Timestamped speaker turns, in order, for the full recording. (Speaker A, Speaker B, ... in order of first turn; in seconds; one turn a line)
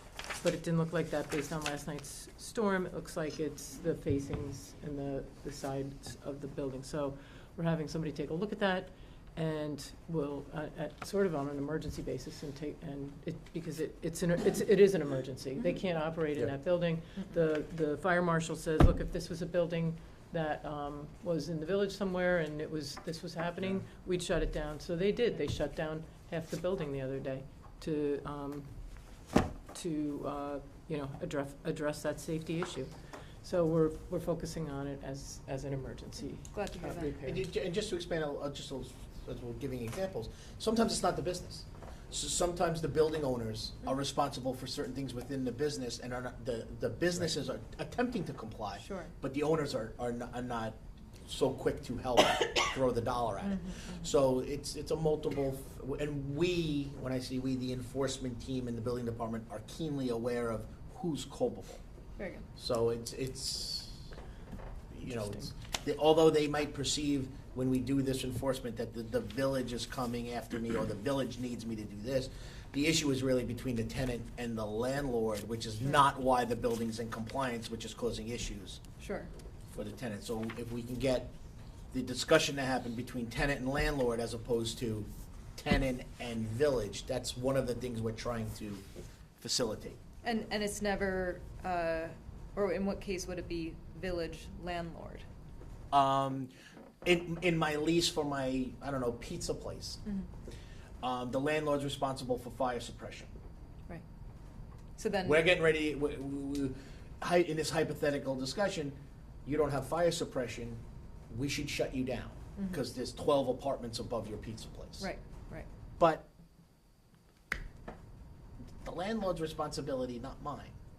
Speaker A: 0.4-28.7
Speaker A: 29.7-32.9
Speaker A: 33.4-37.4
Speaker B: 36.5-37.1
Speaker C: 37.2-61.8
Speaker B: 48.8-49.1
Speaker B: 53.4-54.0
Speaker B: 62.2-62.5
Speaker C: 62.5-64.1
Speaker C: 64.9-78.8
Speaker B: 79.0-79.3
Speaker C: 79.7-81.3
Speaker C: 81.9-88.8
Speaker C: 89.4-90.0
Speaker B: 90.2-95.2
Speaker C: 95.9-96.5
Speaker C: 97.0-100.0
Speaker C: 101.0-103.3
Speaker B: 105.0-105.5
Speaker C: 105.2-115.1
Speaker B: 112.5-112.8
Speaker B: 115.0-115.7
Speaker C: 116.0-116.3
Speaker C: 118.8-120.7